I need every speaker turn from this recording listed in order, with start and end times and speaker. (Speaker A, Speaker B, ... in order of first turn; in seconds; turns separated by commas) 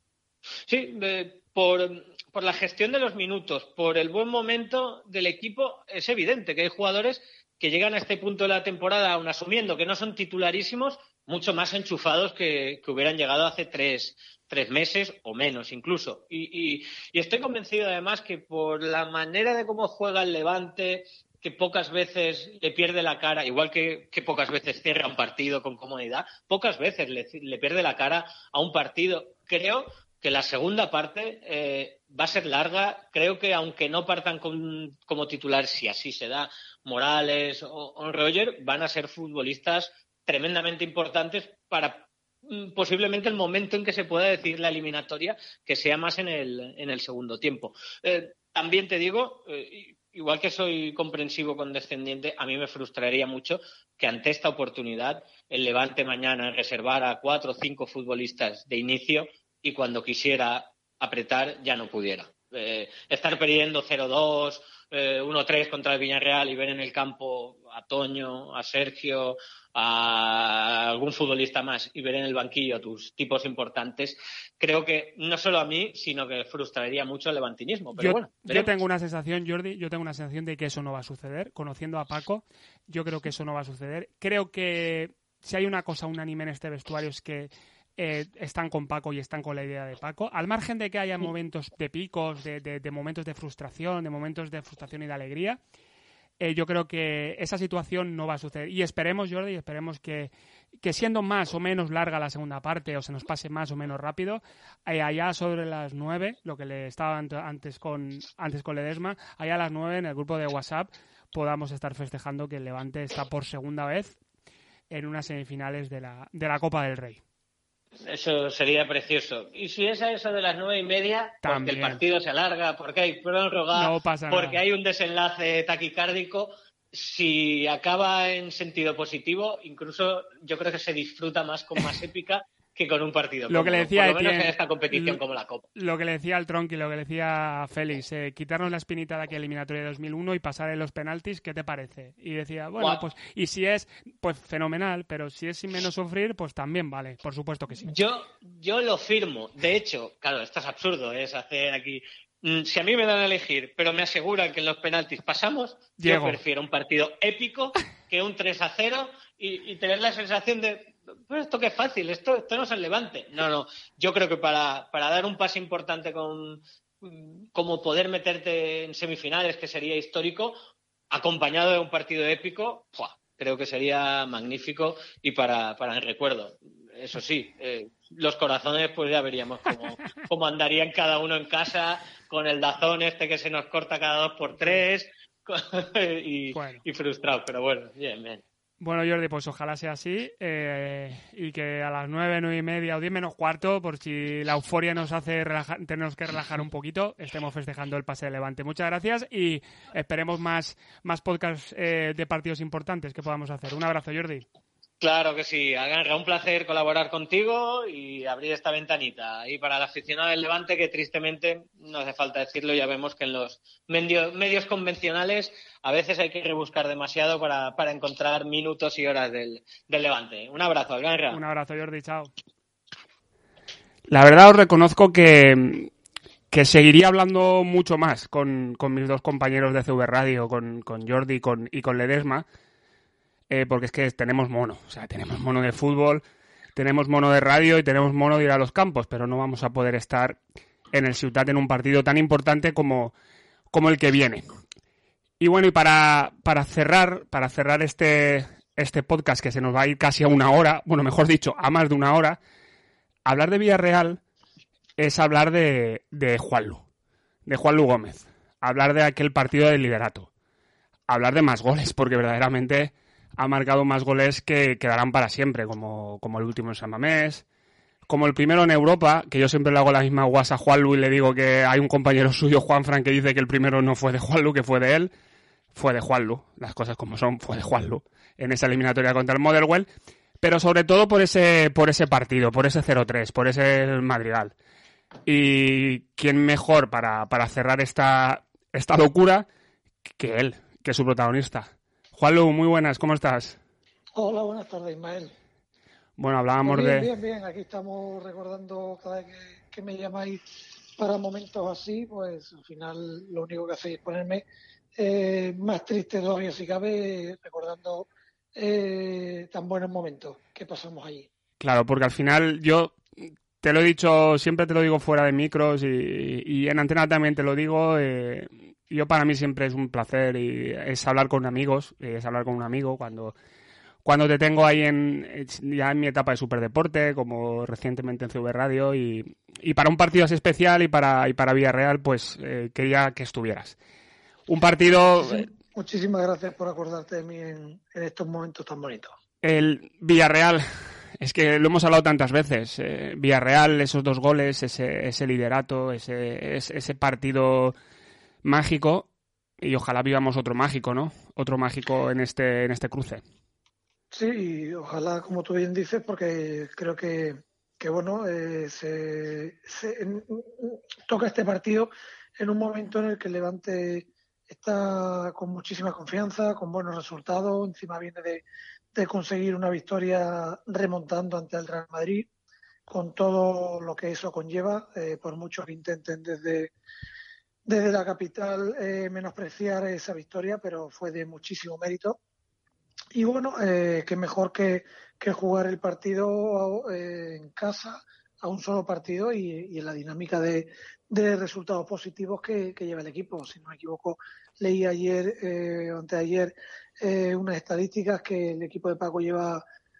Speaker A: 0.7-78.7, Speaker B: 78.0-95.6, Speaker B: 96.4-114.2, Speaker B: 114.9-117.2, Speaker A: 118.0-135.7, Speaker B: 121.4-122.0, Speaker B: 123.7-124.6, Speaker B: 133.5-135.2, Speaker B: 135.8-147.9, Speaker A: 147.8-170.5, Speaker B: 156.0-156.4, Speaker A: 171.1-188.4, Speaker B: 186.5-186.8, Speaker B: 188.8-204.4, Speaker A: 205.0-221.4, Speaker B: 221.3-222.3, Speaker B: 224.1-225.9, Speaker B: 226.5-232.4, Speaker B: 233.5-236.2, Speaker B: 236.8-240.4, Speaker B: 240.9-243.1, Speaker B: 243.7-244.4, Speaker B: 245.4-252.4, Speaker B: 253.2-254.2, Speaker B: 255.0-256.9, Speaker B: 257.4-260.3, Speaker B: 261.1-267.4, Speaker B: 268.1-275.1, Speaker B: 275.7-279.9, Speaker B: 280.4-284.5, Speaker B: 285.2-289.5, Speaker B: 290.2-293.6, Speaker C: 294.1-295.3, Speaker B: 296.2-297.1, Speaker C: 296.6-311.3, Speaker B: 311.6-323.3, Speaker B: 324.0-333.8, Speaker B: 334.5-335.5, Speaker C: 335.2-339.1, Speaker B: 339.4-340.7, Speaker B: 341.2-347.7, Speaker B: 348.4-349.1, Speaker B: 349.6-353.2, Speaker C: 354.1-372.3, Speaker C: 372.9-376.7, Speaker C: 377.6-382.2, Speaker C: 383.1-399.6